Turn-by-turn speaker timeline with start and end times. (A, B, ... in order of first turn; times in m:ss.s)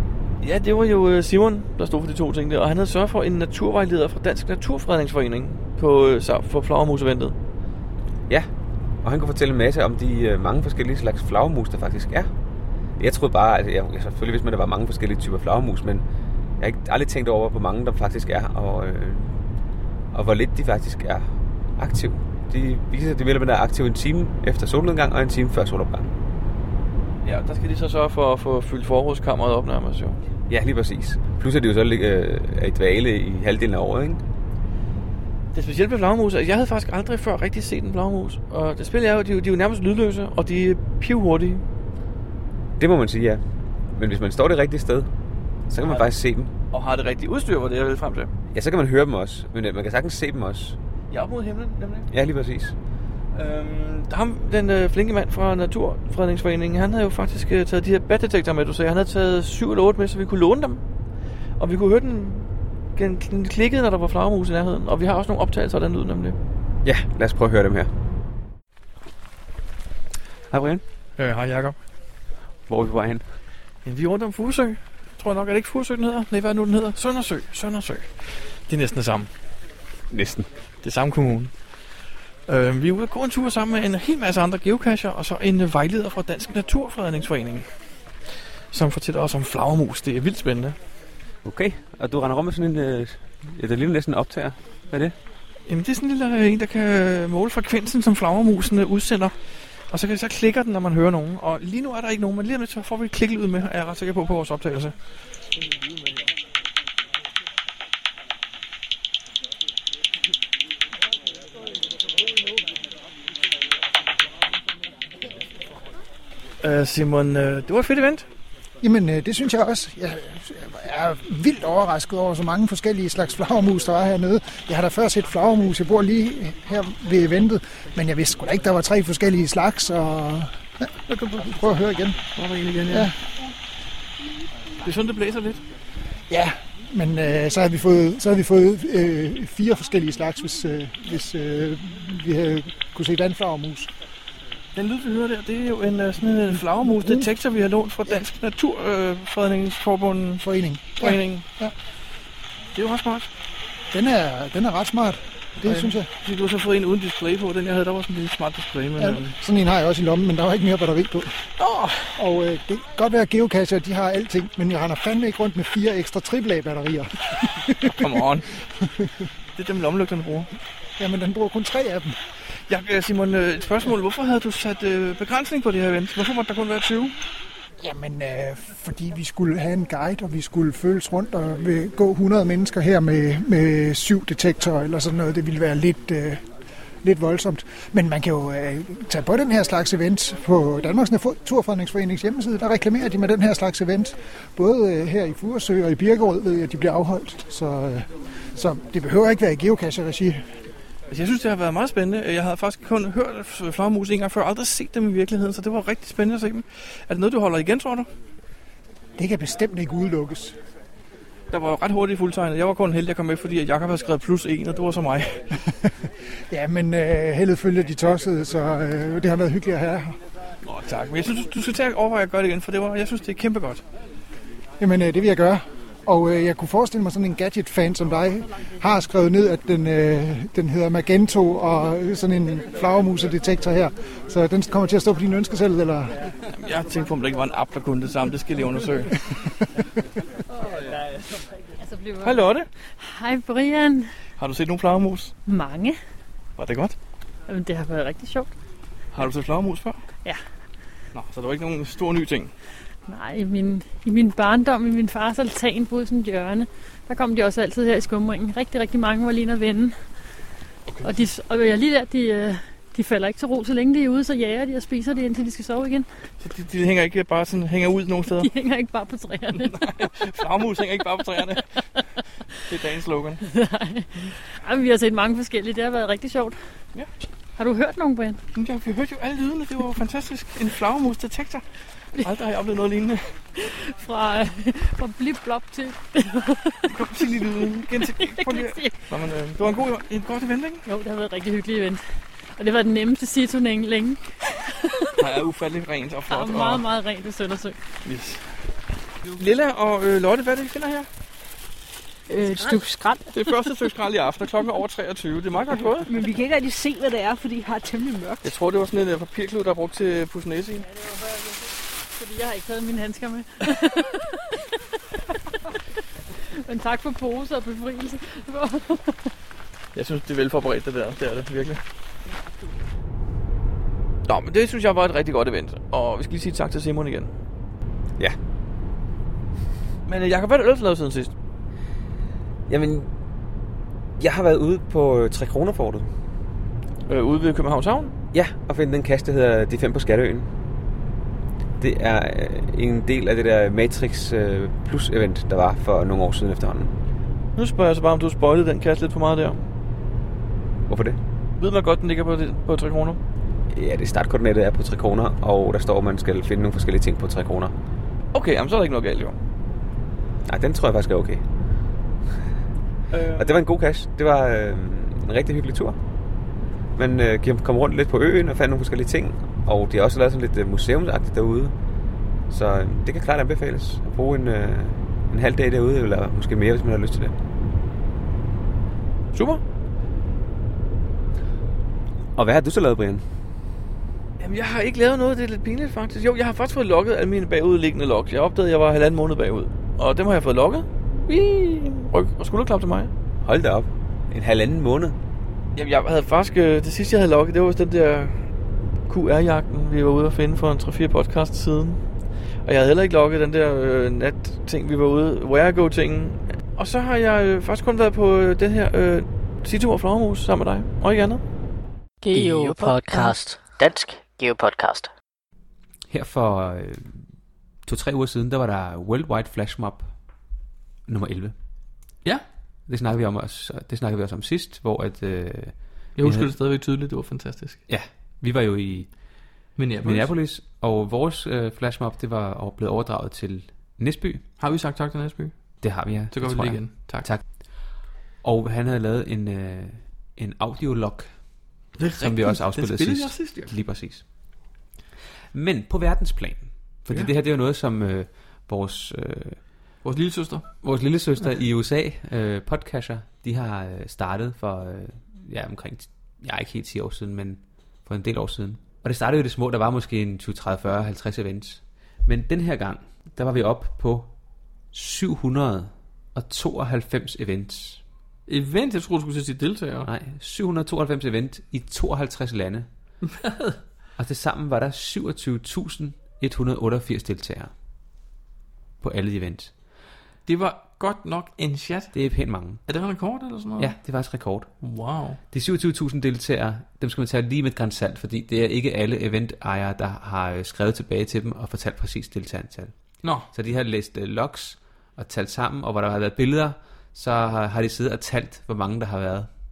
0:00.4-0:07.4 A
0:09.0-0:12.3 B
0:13.0-0:16.0 B
0:16.6-0:19.3 B
0:20.1-0:26.1 B
0:27.2-0:30.2 A
0:30.5-0:34.2 B
0:35.5-0:41.6 A
0:42.8-0:43.4 B
0:44.0-0:45.1 B
0:45.7-0:46.5 B
0:46.7-0:48.3 A
0:48.5-0:50.8 B
0:51.1-0:52.1 A
0:52.1-0:52.8 B
0:53.3-1:00.8 A
1:01.6-1:06.4 A
1:06.8-1:07.9 B
1:10.5-1:10.8 B
1:11.2-1:11.8 A
1:12.7-1:13.2 B
1:13.8-1:19.3 A
1:20.1-1:20.5 B
1:20.8-1:21.5 A
1:22.5-1:27.7 A
1:28.7-1:30.8 A
1:31.4-1:35.2 B
1:35.7-1:39.4 A
1:39.9-1:45.0 A
1:56.6-1:58.3 A
1:58.8-2:12.2 C
2:12.4-2:13.1 A
2:12.9-2:13.2 C
2:14.8-2:15.6 A
2:16.3-2:23.9 C
2:24.8-2:30.4 A
2:26.7-2:27.3 C
2:30.4-2:31.7 C
2:31.0-2:31.4 A
2:32.8-2:33.3 A
2:33.9-2:36.1 C
2:35.6-2:39.4 A
2:39.0-2:41.4 C
2:41.6-2:42.2 A
2:42.2-2:48.2 C
2:47.9-2:48.5 A
2:48.8-2:49.2 C
2:49.6-2:50.5 A
2:51.0-2:52.2 C
2:52.6-2:57.2 A
2:57.8-3:06.4 C
3:07.0-3:20.4 C
3:21.1-3:28.1 A
3:29.2-3:30.6 C
3:31.5-3:35.5 A
3:36.5-3:40.2 C
3:40.6-3:43.8 A
3:44.8-3:56.2 C
3:56.6-3:59.2 A
4:01.8-4:04.1 D
4:02.2-4:02.7 A
4:04.4-4:05.3 A
4:05.5-4:06.0 D
4:06.6-4:07.0 A
4:07.5-4:08.5 D
4:09.1-4:10.0 A
4:11.1-4:12.5 A
4:13.1-4:20.0 D
4:20.9-4:21.2 A
4:21.0-4:26.1 D
4:26.4-4:28.5 A
4:28.4-4:30.2 D
4:29.6-4:31.7 A
4:32.7-4:33.4 A
4:33.5-4:36.6 D
4:37.6-4:38.4 D
4:38.6-4:41.6 A
4:42.2-4:43.2 A
4:43.6-4:49.0 D
4:46.9-4:50.8 A
4:50.8-4:52.0 D
4:52.6-4:55.2 D
4:55.2-4:56.8 A
4:56.3-4:57.8 D
4:58.0-4:58.4 A
4:59.3-5:01.1 A
5:02.3-5:03.3 E
5:02.6-5:02.9 D
5:03.3-5:06.1 A
5:06.1-5:08.5 E
5:08.4-5:10.9 A
5:12.1-5:14.8 D
5:16.6-5:19.3 D
5:20.0-5:21.8 A
5:24.2-5:27.3 A
5:30.1-5:31.3 A
5:32.7-5:33.1 B
5:34.2-5:36.1 B
5:37.1-5:38.1 A
5:38.3-5:40.5 B
5:41.8-5:46.9 B
5:47.6-5:49.6 A
5:50.9-5:51.2 B
5:51.6-5:53.2 A
5:53.7-5:57.7 B
5:58.3-5:59.4 A
6:00.5-6:01.4 B
6:03.1-6:03.6 A
6:03.4-6:06.0 B
6:07.0-6:11.7 B
6:12.5-6:17.3 B
6:19.3-6:19.6 A
6:22.4-6:23.2 B
6:24.4-6:33.1 A
6:33.4-6:35.2 B
6:35.8-6:38.5 A
6:39.1-6:42.0 A
6:42.6-6:51.4 A
6:52.2-6:55.1 F
6:52.4-6:53.3 E
6:56.1-6:57.1 B
6:57.8-7:00.1 B
7:01.1-7:01.5 B
7:02.9-7:06.5 B
7:06.2-7:07.8 A
7:07.9-7:09.1 B
7:09.8-7:10.3 A
7:10.0-7:14.4 B
7:14.6-7:15.5 A
7:15.8-7:17.4 B
7:16.3-7:17.3 A
7:18.4-7:21.3 B
7:22.0-7:23.7 A
7:22.2-7:24.2 B
7:25.5-7:29.6 B
7:30.0-7:30.7 A
7:30.8-7:44.3 B
7:44.9-7:48.0 B
7:48.5-7:50.1 A
7:50.1-7:52.9 B
7:53.4-7:53.8 A
7:54.2-7:57.7 B
7:59.0-7:59.7 B
8:00.5-8:02.1 A
8:02.1-8:02.8 B
8:02.9-8:03.9 A
8:03.8-8:04.8 B
8:04.8-8:05.4 A
8:05.5-8:12.9 B
8:13.2-8:13.5 A
8:13.5-8:19.5 B